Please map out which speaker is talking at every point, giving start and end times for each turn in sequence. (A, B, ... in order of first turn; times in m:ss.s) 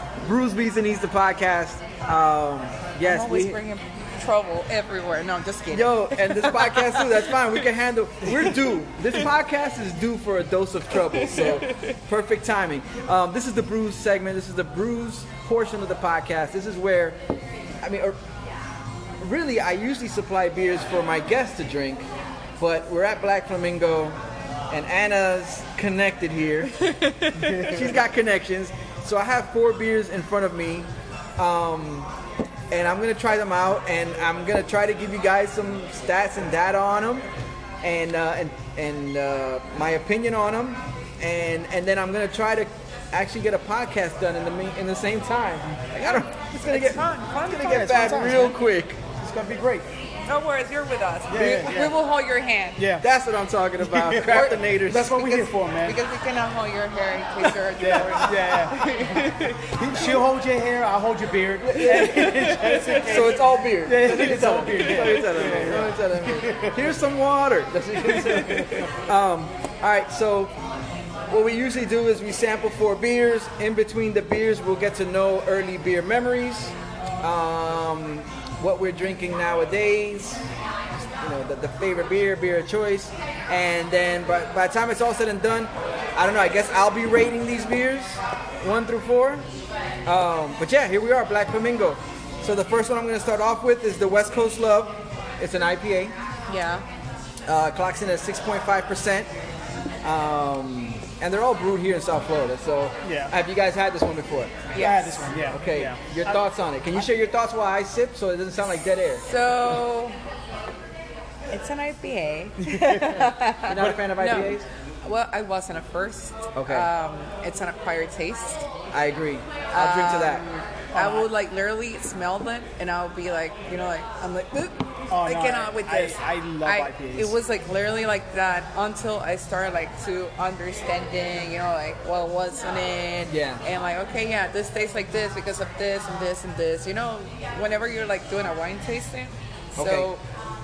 0:00.2-0:03.6 A
0:03.0-0:07.2 B
0:05.7-0:17.2 A
0:11.3-0:11.6 C
0:17.8-0:18.2 A
0:19.2-0:24.2 A
0:24.7-0:26.7 A
0:27.3-0:28.0 C
0:27.6-0:32.1 A
0:32.7-0:37.2 A
0:37.8-0:49.0 A
0:46.0-0:48.5 B
0:47.6-0:48.6 C
0:49.2-0:49.8 C
0:50.3-0:52.8 B
0:51.3-0:52.0 C
0:52.8-0:53.1 C
0:53.0-0:55.2 A
0:53.8-0:56.0 C
0:54.2-0:59.7 B
0:57.8-1:06.9 C
0:58.2-0:58.8 A
0:59.8-1:00.2 A
1:01.7-1:10.6 A
1:08.1-1:08.8 C
1:11.3-1:20.4 A
1:21.0-1:29.4 A
1:30.0-1:36.2 A
1:36.5-1:36.8 B
1:37.5-1:39.3 A
1:40.0-1:44.7 A
1:43.0-1:43.3 C
1:44.7-1:45.2 B
1:44.8-1:46.4 C
1:45.5-1:49.2 A
1:49.2-1:50.2 B
1:51.5-1:58.7 B
1:52.6-1:53.3 C
1:53.6-1:54.6 A
1:56.5-1:56.9 A
1:58.9-2:00.4 A
1:59.7-2:20.2 B
2:00.9-2:01.3 C
2:05.1-2:07.3 C
2:13.3-2:13.6 A
2:19.8-2:20.1 A